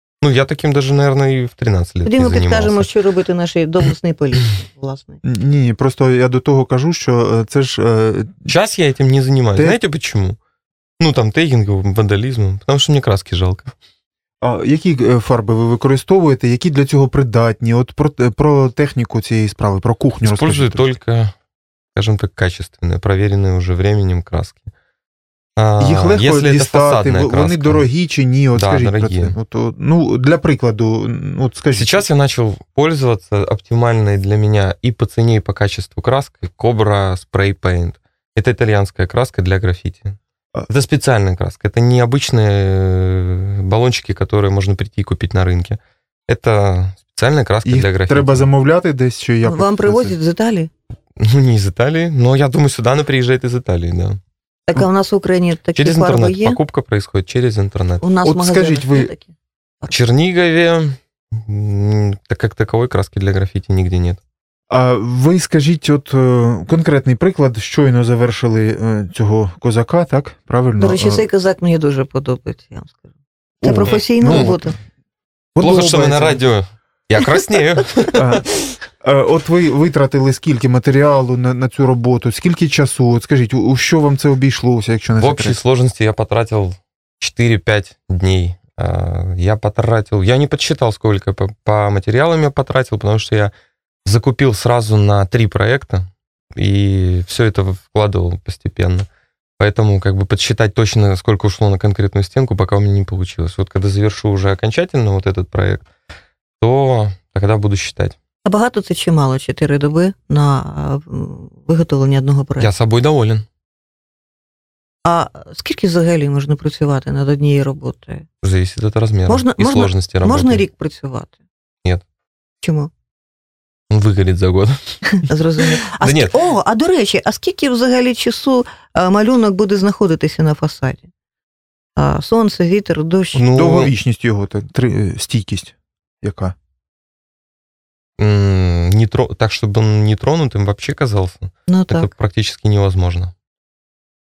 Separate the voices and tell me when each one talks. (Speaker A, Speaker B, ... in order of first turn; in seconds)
Speaker A: 0.2-2.9, 8.5-10.4, 11.0-13.7, 20.2-21.3, 21.9-24.6, 25.6-27.9, 28.5-29.3, 31.7-40.2, 40.7-48.5, 51.2-54.2, 55.8-58.0, 59.9-64.2, 73.8-74.5, 75.6-78.7, 85.2-93.5, 94.0-99.1, 99.6-105.9, 106.6-108.2, 112.6-113.5, 118.4-120.6, 123.9-125.2, 126.0-126.3, 133.3-133.9, 138.2-143.3
Speaker B: 2.0-5.2, 49.4-50.7, 54.7-56.6, 58.0-59.3, 70.8-73.0, 73.6-74.7, 108.4-112.7, 115.0-118.2, 119.3-121.3, 122.6-122.9, 125.2-131.1, 131.9-133.4, 141.7-142.1
Speaker C: 5.2-8.5, 14.4-20.8, 25.8-32.0, 47.6-50.1, 58.2-59.1, 64.7-71.2, 73.6-74.7, 75.5-76.4, 78.1-78.5, 79.0-85.6, 133.4-136.5